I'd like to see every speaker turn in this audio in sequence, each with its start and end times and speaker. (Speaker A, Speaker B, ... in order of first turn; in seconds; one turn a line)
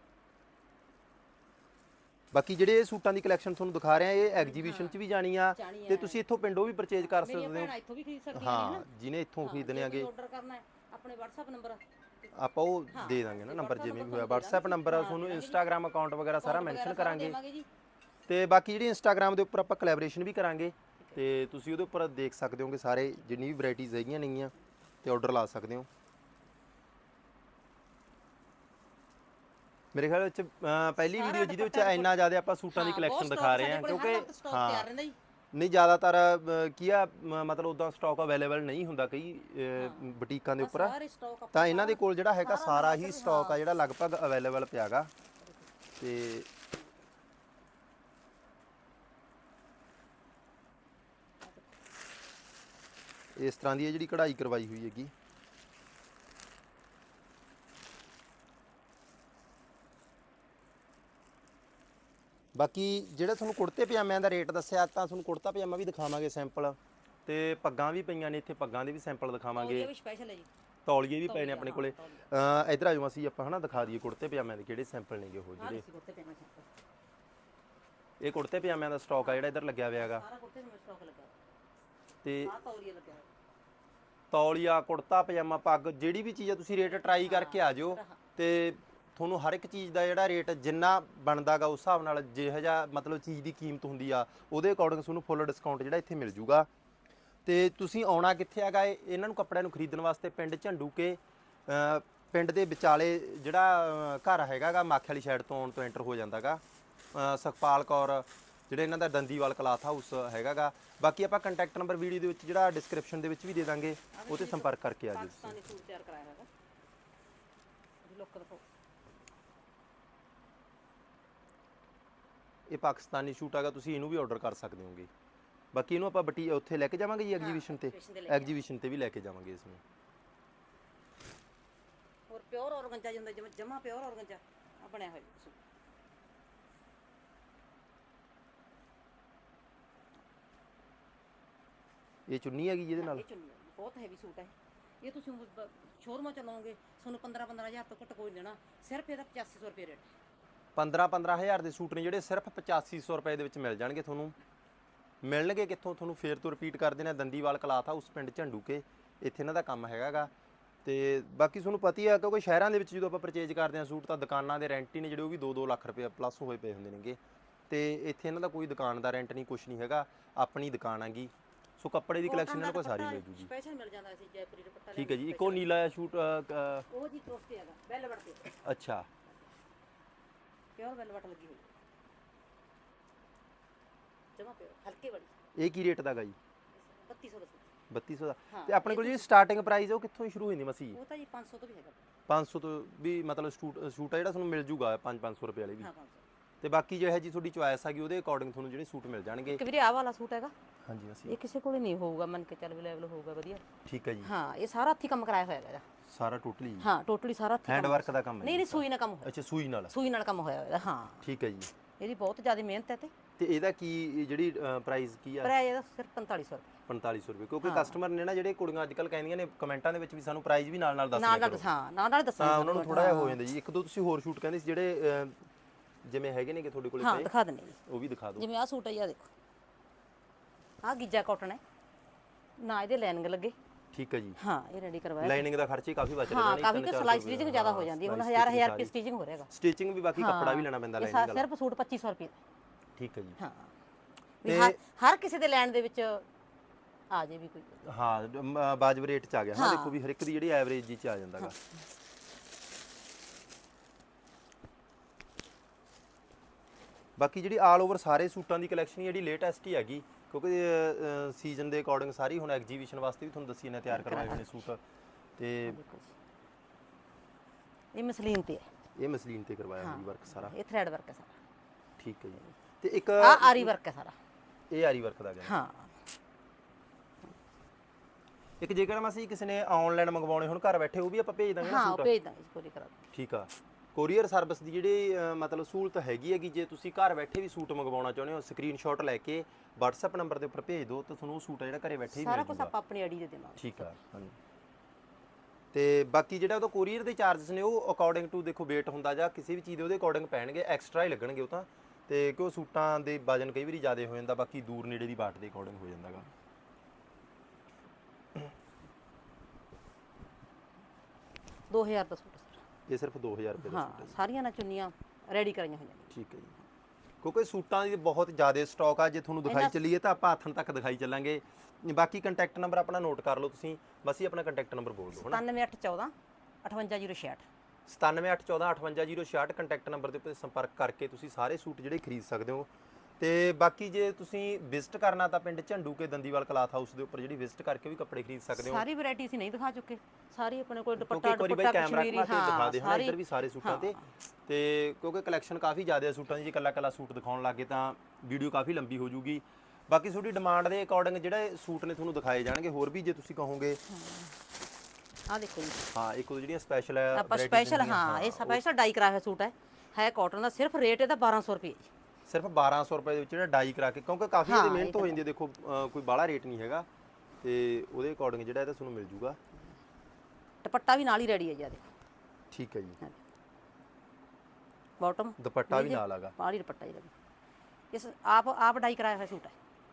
Speaker A: 2.3-7.7
Speaker B: 4.3-5.0
Speaker B: 5.5-6.2
Speaker B: 7.0-8.9
Speaker A: 8.3-10.1
Speaker B: 9.4-11.8
Speaker A: 12.3-17.4
Speaker B: 12.9-15.6
Speaker B: 16.4-17.7
Speaker A: 18.3-25.9
Speaker A: 29.9-34.9
Speaker B: 31.0-35.2
Speaker A: 35.5-41.0
Speaker B: 39.8-43.6
Speaker A: 41.5-45.1
Speaker A: 46.0-46.5
Speaker A: 53.4-55.1
Speaker A: 62.5-69.9
Speaker B: 69.5-70.5
Speaker A: 70.9-75.8
Speaker B: 71.2-72.2
Speaker B: 75.6-76.7
Speaker A: 78.2-80.2
Speaker B: 79.2-81.4
Speaker A: 82.2-82.5
Speaker B: 82.4-83.3
Speaker A: 84.3-96.7
Speaker B: 86.9-88.2
Speaker A: 97.5-106.6
Speaker A: 107.1-115.6
Speaker B: 114.1-116.5
Speaker B: 118.0-118.6
Speaker A: 122.7-125.1
Speaker A: 125.7-129.8
Speaker B: 127.4-128.6
Speaker B: 132.3-135.6
Speaker A: 142.3-143.2
Speaker B: 143.0-150.1
Speaker A: 150.8-154.3
Speaker A: 155.2-160.3
Speaker A: 160.8-167.2
Speaker A: 167.7-173.5
Speaker B: 172.2-175.7
Speaker A: 174.9-176.9
Speaker B: 176.9-178.6
Speaker A: 178.6-179.1
Speaker B: 180.8-181.7
Speaker B: 184.4-185.3
Speaker A: 185.6-186.4
Speaker B: 186.8-187.7
Speaker A: 187.9-191.0
Speaker B: 188.5-189.3
Speaker B: 190.9-192.1
Speaker A: 192.3-195.9
Speaker B: 195.8-196.2
Speaker A: 196.6-199.6
Speaker B: 199.5-200.5
Speaker A: 200.8-201.4
Speaker B: 201.3-203.6
Speaker A: 203.8-204.3
Speaker B: 204.2-205.8
Speaker A: 206.1-206.9
Speaker B: 206.8-209.3
Speaker A: 207.7-209.9
Speaker B: 209.9-211.3
Speaker A: 211.2-211.7
Speaker B: 212.0-213.1
Speaker A: 213.4-215.5
Speaker B: 215.4-216.8
Speaker A: 216.9-221.7
Speaker B: 217.6-218.0
Speaker B: 221.1-223.4
Speaker A: 222.4-225.4
Speaker A: 226.0-227.3
Speaker B: 227.0-227.8
Speaker A: 227.8-228.4
Speaker B: 228.4-229.3
Speaker B: 230.8-231.6
Speaker B: 232.6-233.6
Speaker A: 233.9-234.4
Speaker B: 234.4-235.4
Speaker A: 235.2-238.9
Speaker B: 236.2-239.5
Speaker A: 239.5-241.5
Speaker B: 240.2-242.4
Speaker A: 243.0-243.4
Speaker B: 243.4-243.7
Speaker B: 244.4-246.3
Speaker A: 244.4-244.8
Speaker B: 247.1-247.8
Speaker A: 247.8-251.6
Speaker B: 249.5-250.0
Speaker A: 257.2-264.8
Speaker B: 263.9-264.6
Speaker A: 265.4-265.8
Speaker B: 265.7-266.1
Speaker B: 267.9-268.7
Speaker A: 269.0-270.5
Speaker B: 269.8-271.4
Speaker A: 272.0-273.7
Speaker B: 273.2-274.2
Speaker A: 274.7-275.5
Speaker B: 275.4-276.0
Speaker A: 278.6-282.1
Speaker B: 281.6-283.0
Speaker A: 283.1-292.7
Speaker B: 292.1-293.9
Speaker A: 293.6-294.4
Speaker A: 295.7-306.3
Speaker B: 311.7-312.6
Speaker A: 312.9-314.2
Speaker B: 313.6-316.1
Speaker A: 316.1-316.5
Speaker A: 317.2-325.4
Speaker B: 319.4-319.8
Speaker B: 325.2-327.5
Speaker A: 327.9-332.7
Speaker A: 333.2-338.9
Speaker B: 338.5-344.1
Speaker A: 341.0-353.8
Speaker B: 353.9-354.3
Speaker B: 355.3-355.9
Speaker A: 355.9-358.6
Speaker B: 357.1-361.9
Speaker A: 362.3-366.9
Speaker B: 364.4-365.2
Speaker A: 367.4-369.4
Speaker B: 370.6-371.9
Speaker A: 372.5-373.0
Speaker B: 375.0-377.1
Speaker A: 375.4-376.4
Speaker B: 377.9-379.6